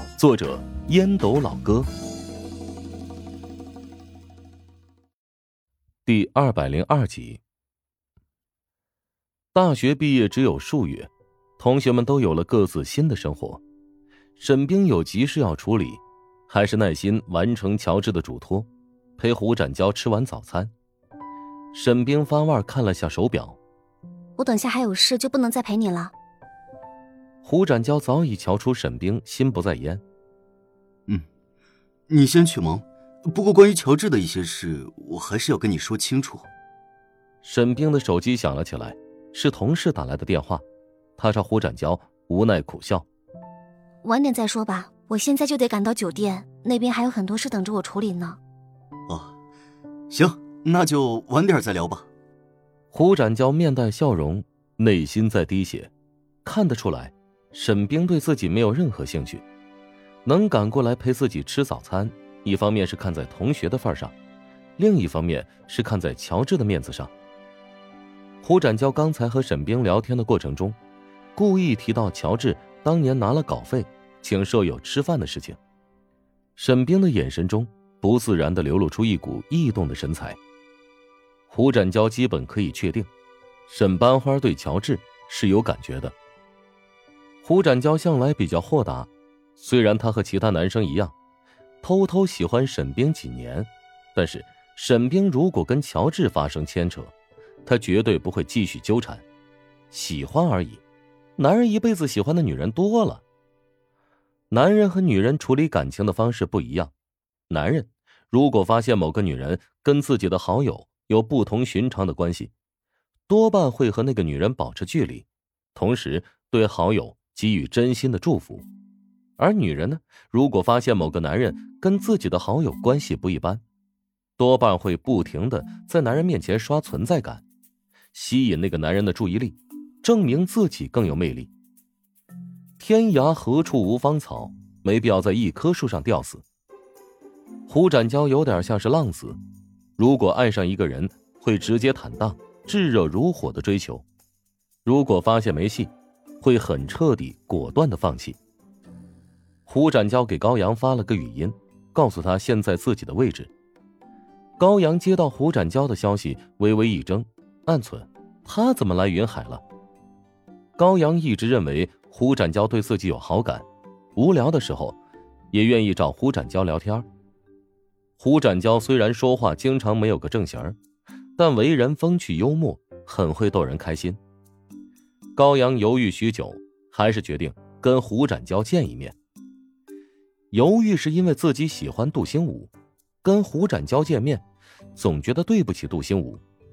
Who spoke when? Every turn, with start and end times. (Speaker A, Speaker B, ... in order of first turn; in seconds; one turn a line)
Speaker A: 0.2-1.9
Speaker A: 6.0-7.4
Speaker A: 9.5-13.6
Speaker A: 14.3-20.7
Speaker A: 21.7-23.6
Speaker B: 24.4-26.1
Speaker A: 27.4-30.0
Speaker C: 32.1-36.5
Speaker A: 37.4-40.6
Speaker A: 41.2-43.0
Speaker B: 44.0-48.4
Speaker C: 49.1-49.3
Speaker C: 50.1-52.1
Speaker A: 52.9-55.9
Speaker A: 56.4-59.4
Speaker A: 60.2-64.1
Speaker A: 64.8-67.1
Speaker A: 68.4-70.8
Speaker A: 71.3-75.6
Speaker A: 76.5-80.4
Speaker A: 81.5-83.1
Speaker A: 83.7-86.1
Speaker A: 87.4-91.1
Speaker A: 91.8-97.1
Speaker A: 97.6-99.2
Speaker A: 99.9-100.8
Speaker A: 101.4-103.2
Speaker A: 104.5-106.9
Speaker A: 107.5-112.5
Speaker A: 113.3-118.6
Speaker A: 119.4-123.6
Speaker A: 124.4-127.4
Speaker A: 128.1-131.5
Speaker A: 132.8-136.4
Speaker A: 137.7-139.4
Speaker A: 140.0-144.0
Speaker A: 144.8-145.9
Speaker A: 146.4-148.4
Speaker A: 149.7-153.5
Speaker A: 154.6-159.6
Speaker A: 160.8-163.6
Speaker A: 164.1-165.0
Speaker A: 165.5-167.1
Speaker A: 168.2-170.8
Speaker A: 171.4-174.2
Speaker A: 175.3-179.1
Speaker A: 180.5-182.7
Speaker A: 183.2-184.4
Speaker A: 184.9-186.4